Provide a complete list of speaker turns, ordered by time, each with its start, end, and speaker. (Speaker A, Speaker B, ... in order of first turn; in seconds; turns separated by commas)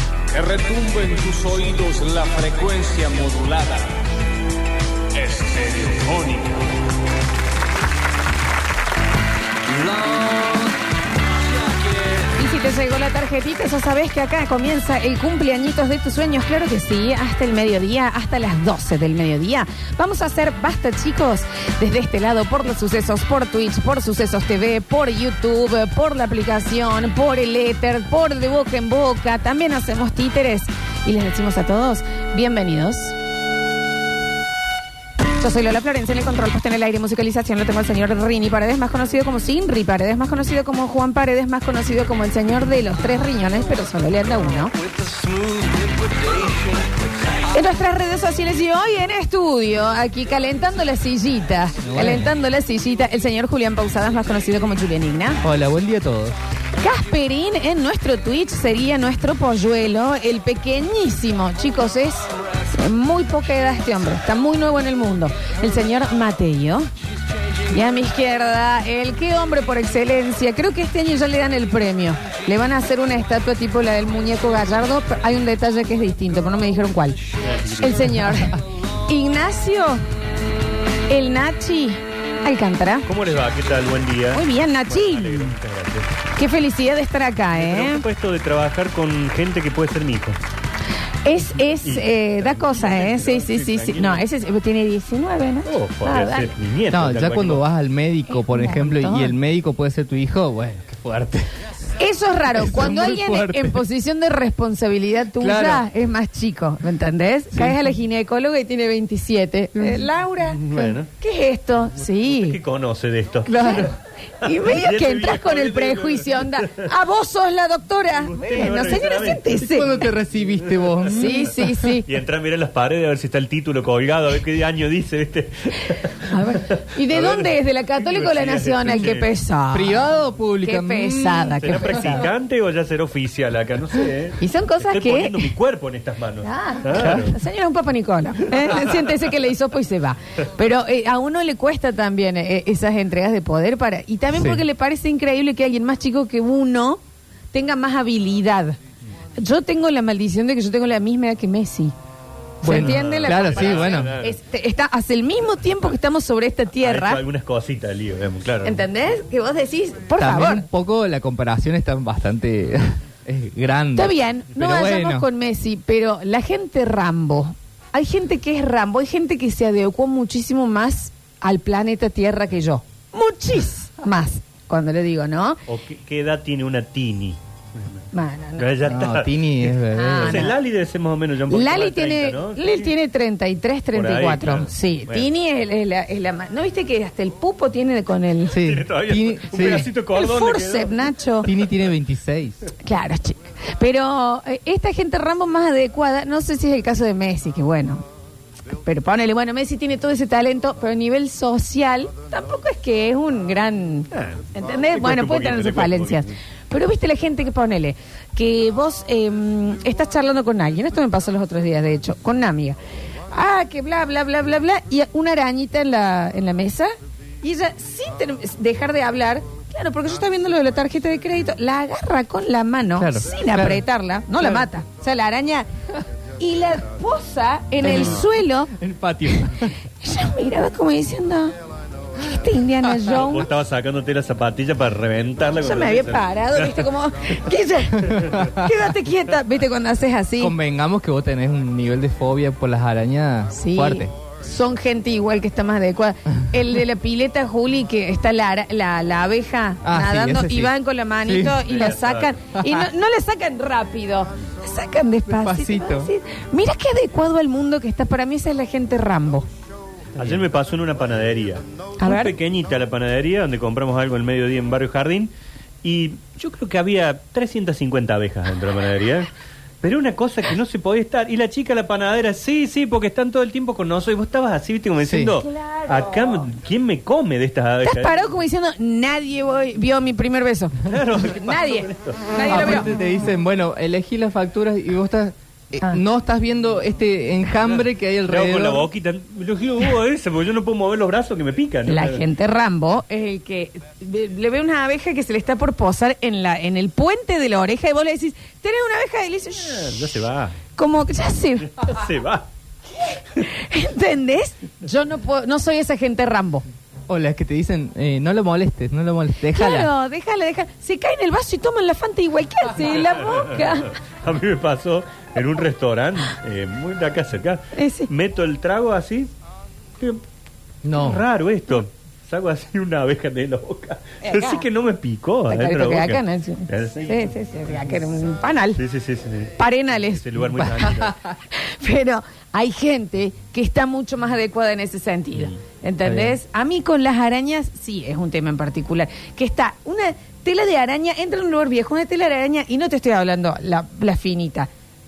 Speaker A: 0.3-4.0, Speaker A: 5.1-6.7, Speaker A: 9.7-10.8, Speaker A: 11.6-12.3, Speaker B: 12.3-33.1, Speaker B: 35.4-44.7, Speaker A: 45.1-46.0, Speaker B: 47.5-55.4, Speaker C: 51.8-52.3, Speaker C: 55.4-56.3, Speaker B: 56.8-66.9, Speaker B: 67.7-77.2, Speaker D: 77.4-78.4, Speaker B: 77.8-80.0, Speaker B: 81.1-83.1, Speaker D: 83.0-86.1, Speaker B: 84.3-85.5, Speaker B: 86.3-88.0, Speaker D: 87.5-90.4, Speaker B: 91.2-96.5, Speaker D: 91.8-94.2, Speaker D: 95.7-97.6, Speaker C: 96.9-101.6, Speaker B: 98.3-99.3, Speaker B: 102.0-112.6, Speaker C: 102.5-103.8, Speaker C: 105.4-105.8, Speaker C: 107.5-107.8, Speaker C: 109.8-110.0, Speaker D: 110.5-111.1, Speaker D: 112.3-113.9, Speaker C: 113.5-113.9, Speaker B: 113.5-120.0, Speaker D: 114.5-116.9, Speaker D: 118.2-120.0, Speaker C: 119.5-121.8, Speaker D: 120.7-120.9, Speaker B: 121.1-122.1, Speaker D: 121.8-129.3, Speaker B: 126.2-130.1, Speaker C: 129.7-131.9, Speaker B: 130.6-132.2, Speaker D: 131.6-137.3, Speaker B: 134.4-135.5, Speaker B: 136.4-147.0, Speaker C: 136.9-137.3, Speaker D: 138.5-138.9, Speaker C: 144.3-144.6, Speaker B: 147.5-148.8, Speaker B: 149.4-151.9, Speaker C: 152.6-154.2, Speaker B: 152.6-157.2, Speaker D: 152.7-154.4, Speaker D: 156.8-158.8, Speaker B: 158.6-160.7, Speaker C: 160.2-165.3, Speaker B: 163.9-175.6, Speaker D: 175.7-178.0, Speaker B: 178.1-178.7, Speaker D: 178.6-182.9, Speaker C: 178.8-180.5, Speaker B: 179.9-180.6, Speaker B: 181.5-188.6, Speaker D: 183.9-185.3, Speaker D: 188.5-191.1, Speaker C: 188.5-189.9, Speaker B: 190.1-191.5, Speaker C: 191.4-192.6, Speaker B: 192.8-198.0, Speaker B: 198.7-212.8, Speaker D: 204.1-206.3, Speaker B: 213.3-225.7, Speaker C: 222.9-223.8, Speaker B: 226.4-228.7, Speaker C: 227.8-229.7, Speaker D: 227.9-228.2, Speaker B: 230.0-231.5, Speaker B: 232.2-233.5, Speaker D: 233.1-236.9, Speaker B: 235.6-240.6, Speaker C: 238.1-238.5, Speaker C: 240.4-244.1, Speaker B: 243.5-259.4, Speaker C: 249.8-251.8, Speaker D: 251.6-252.4, Speaker C: 252.5-252.9, Speaker C: 255.3-256.1, Speaker D: 260.1-265.3, Speaker B: 262.0-262.4, Speaker D: 265.8-269.3, Speaker D: 269.8-278.3, Speaker C: 275.0-275.4, Speaker B: 275.4-276.4, Speaker B: 277.8-282.9, Speaker D: 280.8-282.6, Speaker C: 282.4-288.9, Speaker D: 287.8-292.2, Speaker B: 291.9-300.0, Speaker D: 299.6-300.6, Speaker B: 300.7-301.9, Speaker D: 301.8-302.4, Speaker B: 302.9-306.6, Speaker C: 307.1-309.9, Speaker B: 309.4-314.0, Speaker D: 313.0-319.3, Speaker B: 317.7-318.1, Speaker C: 320.8-321.2, Speaker D: 320.9-327.3, Speaker B: 324.2-324.6, Speaker B: 325.5-328.8, Speaker D: 328.8-331.1, Speaker B: 329.6-330.3, Speaker C: 330.7-331.3, Speaker B: 331.5-344.7, Speaker C: 336.0-336.4